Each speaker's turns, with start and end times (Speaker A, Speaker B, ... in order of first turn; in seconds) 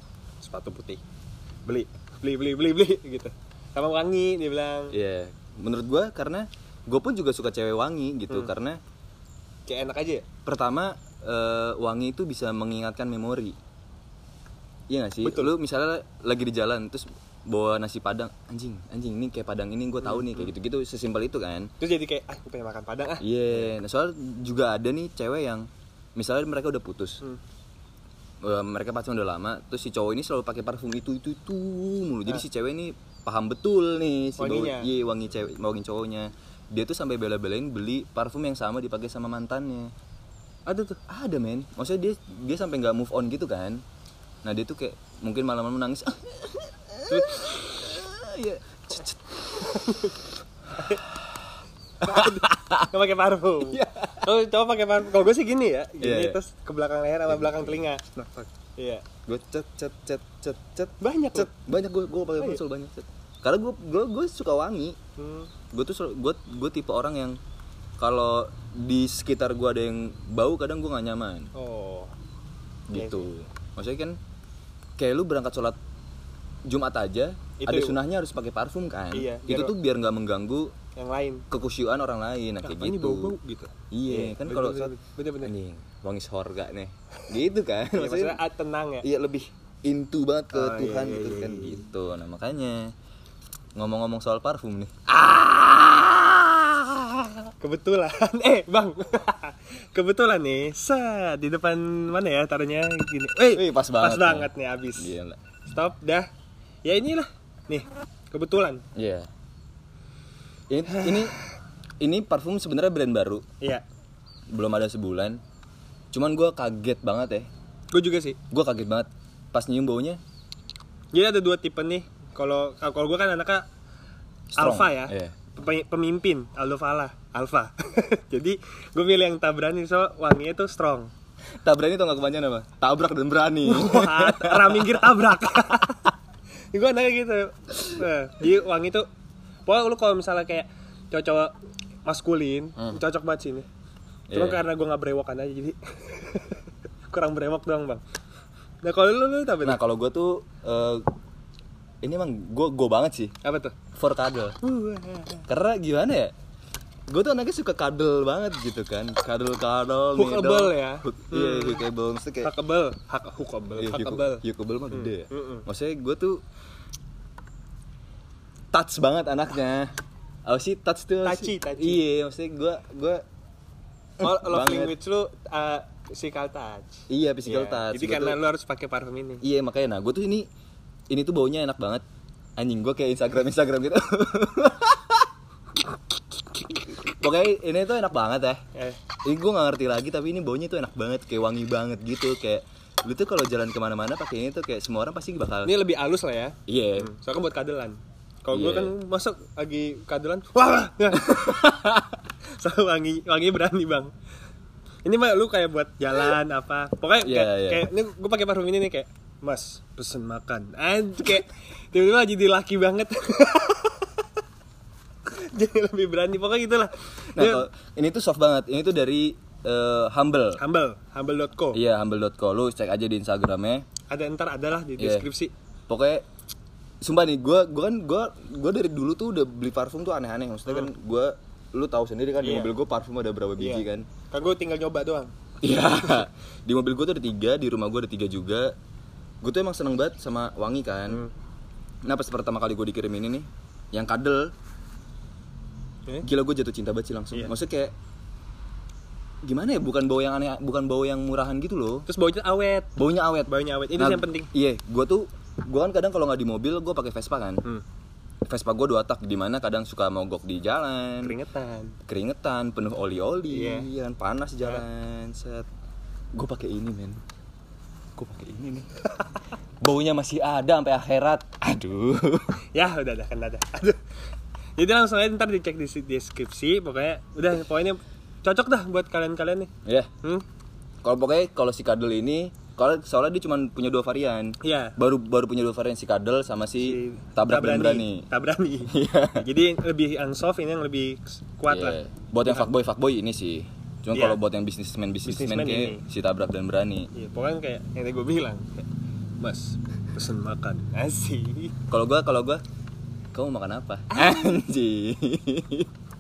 Speaker A: 0.4-1.0, 1.7-5.0, 9.7-10.2, 15.2-15.5, 20.0-20.5, 21.8-23.7, 34.4-34.9, 40.7-41.0, 47.1-47.5, 49.5-51.0, 52.0-59.0, 61.0-61.5, 65.2-65.5, 71.5-72.2, 72.9-73.3, 77.6-78.0, 79.1-79.7, 81.0-81.5, 82.6-85.5, 87.9-89.1, 90.5-91.8, 97.6-105.1, 105.7-106.3, 106.8-108.8, 117.9-118.4, 121.1-123.7, 124.6-131.1, 133.7-136.1, 136.7-139.1, 139.7-141.5, 142.1-143.7, 144.3-148.0, 148.8-149.8, 153.4-153.8, 154.6-155.5, 160.2-161.8, 162.4-165.7, 171.2-172.0, 174.2-179.4, 188.8-189.0, 195.6-202.0, 202.6-204.1, 205.1-214.2, 215.3-217.7, 220.6-221.8, 224.1-225.5, 232.4-232.7, 233.6-236.2, 252.1-254.5, 261.2-262.0, 263.5-263.9, 272.7-274.0, 274.8-279.7, 284.6-285.0, 286.8-292.7, 294.1-294.4, 295.2-296.0, 297.1-298.9, 299.4-301.7
Speaker B: 4.9-8.8, 10.5-13.6, 14.9-21.7, 23.2-27.2, 28.4-39.9, 41.1-43.8, 44.4-49.7, 50.9-51.2, 52.0-52.8, 53.7-54.3, 56.0-56.4, 57.3-57.9, 59.3-65.0, 65.7-67.4, 68.0-71.5, 72.9-74.2, 75.0-75.8, 76.7-80.7, 81.5-83.3, 83.9-88.4, 89.0-92.9, 93.8-97.4, 103.5-105.4, 109.0-109.3, 110.7-111.4, 112.0-113.4, 114.5-115.4, 116.1-117.5, 118.5-120.2, 124.5-125.4, 131.6-135.1, 144.3-144.6, 149.6-151.1, 152.0-153.3, 153.9-154.6, 155.5-156.3, 157.1-162.5, 163.8-166.4, 168.7-169.9, 170.5-173.2, 174.2-174.9, 177.1-178.4, 179.4-180.5, 181.1-182.0, 182.6-185.3, 186.9-188.6, 189.2-195.8, 196.7-197.1, 198.5-199.0, 201.1-202.0, 207.2-207.9, 217.3-220.6, 221.7-223.8, 225.0-225.3, 225.9-226.2, 227.0-234.1, 235.6-238.7, 239.4-241.2, 242.1-244.5, 246.2-247.9, 249.5-252.1, 253.0-257.6, 258.5-261.4, 262.1-265.7, 266.4-267.2, 268.2-268.9, 269.8-272.6, 279.9-280.1, 281.0-288.2, 288.9-289.5, 291.7-297.1, 301.9-302.6, 303.3-305.9